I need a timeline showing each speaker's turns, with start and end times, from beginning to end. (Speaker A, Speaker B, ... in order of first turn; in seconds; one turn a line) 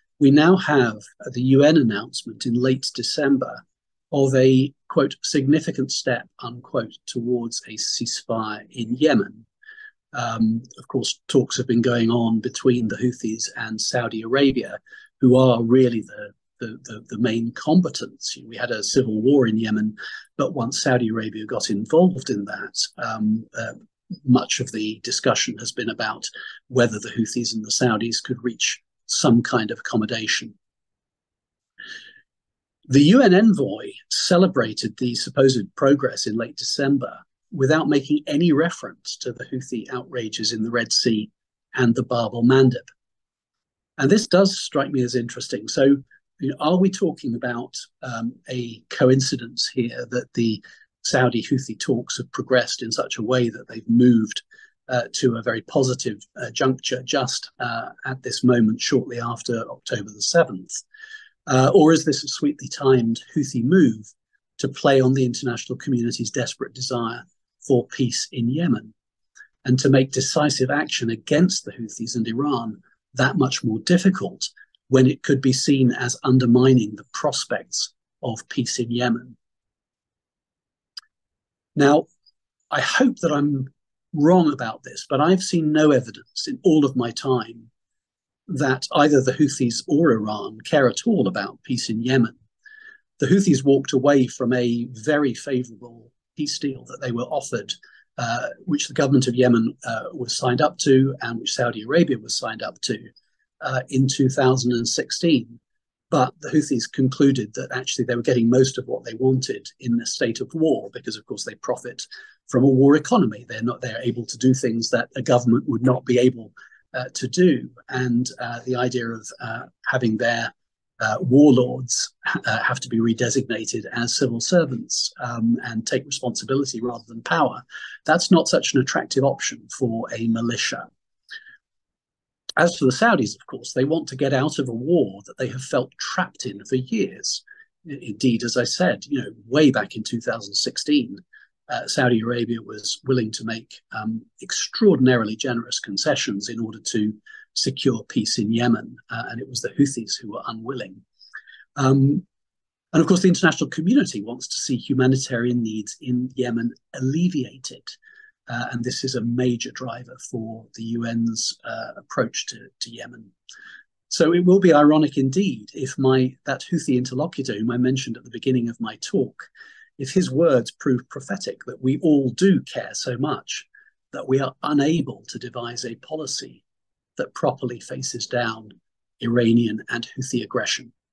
Speaker A: 0.2-9.5
Speaker A: 10.1-30.5
Speaker A: 32.9-42.9
Speaker A: 44.0-60.8
Speaker A: 61.5-68.9
Speaker A: 69.7-79.4
Speaker A: 81.8-82.1
Speaker A: 82.7-87.7
Speaker A: 88.5-92.4
Speaker A: 93.2-103.1
Speaker A: 103.6-105.6
Speaker A: 106.1-130.9
Speaker A: 132.6-151.0
Speaker A: 151.8-152.2
Speaker A: 152.9-158.0
Speaker A: 158.5-163.3
Speaker A: 164.1-176.6
Speaker A: 177.2-180.9